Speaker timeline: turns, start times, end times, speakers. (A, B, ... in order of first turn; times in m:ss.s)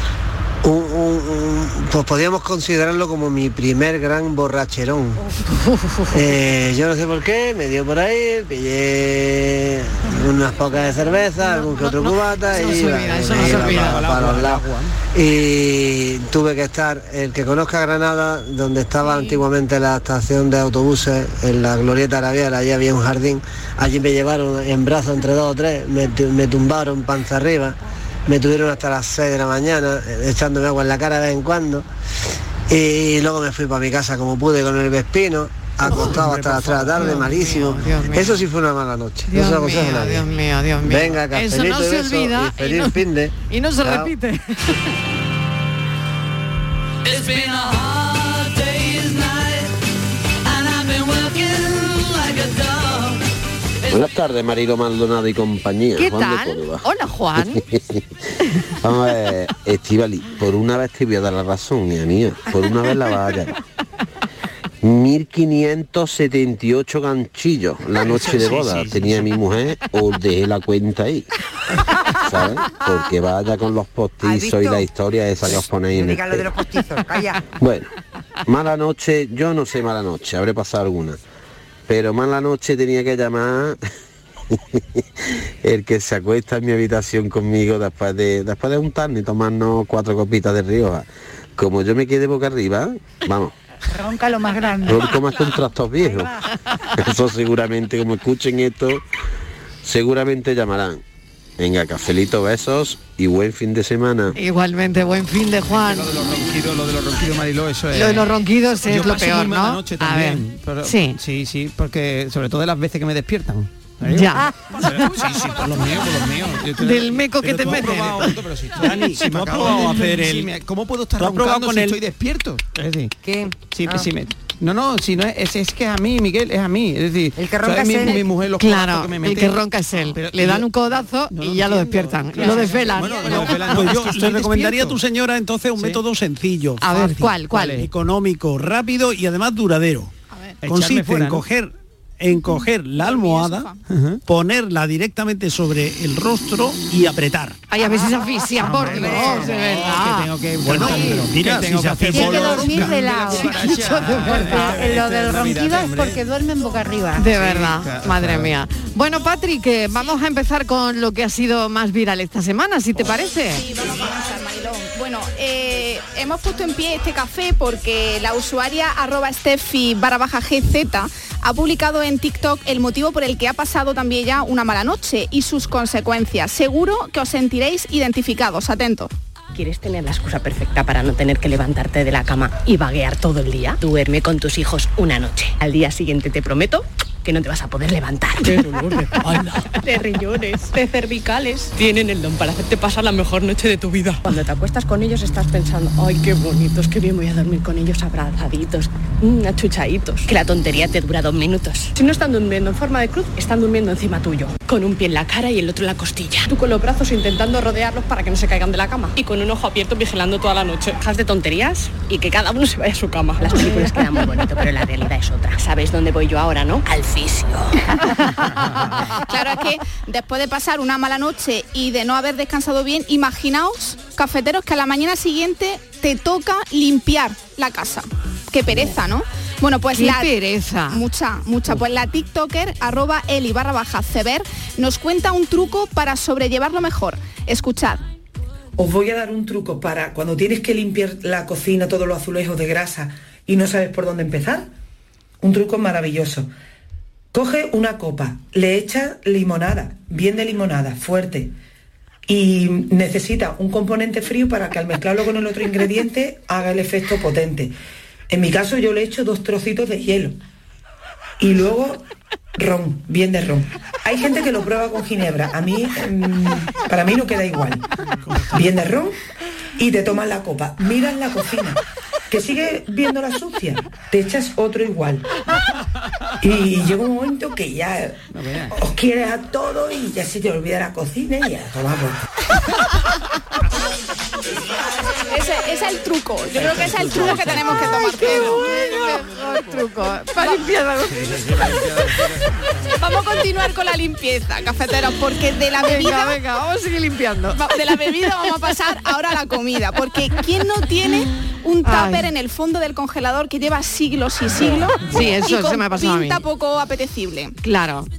0:00.6-0:05.2 A
0:05.5-0:06.2 B
0:06.1-0:31.8 A
0:11.4-0:14.1 B
0:13.3-0:14.6 C
0:13.4-0:14.6 D
0:32.7-0:40.3 A
0:35.8-0:36.2 B
0:36.3-0:37.0 D
0:37.0-0:38.4 B
0:39.3-0:44.8 B
0:40.8-0:44.1 A
0:47.1-0:49.5 E
0:50.8-0:51.1 E
0:52.3-0:52.9 E
0:53.9-0:56.8 F
0:56.0-0:57.6 B
0:57.4-0:58.0 F
0:58.8-1:03.5 F
1:04.8-1:11.3 F
1:08.0-1:09.3 D
1:12.1-1:16.5 F
1:14.2-1:14.9 G
1:15.4-1:17.4 G
1:17.6-1:17.9 F
1:18.5-1:21.2 F
1:21.9-1:23.8 F
1:24.5-1:24.8 F
1:25.6-1:33.5 F
1:33.9-1:35.4 H
1:34.8-1:36.3 F
1:36.0-1:36.4 H
1:37.0-1:39.0 F
1:39.8-1:41.0 F
1:41.6-1:44.4 F
1:44.3-1:46.1 B
1:45.7-1:48.3 D
1:47.9-1:51.2 B
1:48.8-2:15.0 D
1:54.1-1:54.5 B
1:55.2-1:56.1 C
1:56.8-1:58.3 B
1:57.4-2:00.5 C
2:01.2-2:02.0 C
2:03.2-2:04.1 G
2:07.4-2:08.2 G
2:08.6-2:13.9 B
2:12.4-2:20.1 C
2:15.8-2:16.0 D
2:16.8-2:17.8 B
2:17.5-2:17.9 D
2:20.3-2:20.6 I
2:20.6-2:23.7 C
2:20.6-2:21.4 D
2:22.6-2:23.8 I
2:23.9-2:24.2 D
2:24.2-2:27.6 C
2:27.7-2:31.2 B
2:28.6-2:36.2 D
2:28.8-2:33.3 C
2:29.0-2:29.5 G
2:32.1-2:37.3 H
2:33.9-2:34.7 B
2:34.0-2:34.6 C
2:37.2-2:43.6 B
2:37.3-2:38.5 D
2:43.5-2:59.1 I
2:59.5-3:38.1 J
3:09.2-3:09.6 C
3:39.2-3:50.3 I
3:49.9-3:51.0 B
3:50.9-3:58.0 I
3:58.8-4:04.7 K
4:05.4-4:06.5 K
4:07.3-4:11.5 K
4:12.3-4:17.8 K
4:18.3-4:20.4 K
4:21.4-4:27.9 K
4:28.5-4:29.2 K
4:29.8-4:35.3 K
4:36.4-4:38.2 K
4:38.3-4:38.8 D
4:38.7-4:42.2 K
4:45.2-4:49.0 I
4:46.5-4:48.2 D
4:47.9-4:51.4 B
4:51.1-4:52.2 D
4:52.9-4:56.4 I
4:55.8-4:57.7 B
4:57.5-5:07.6 I
5:01.8-5:02.3 B
5:05.0-5:06.4 B
5:07.6-5:08.1 B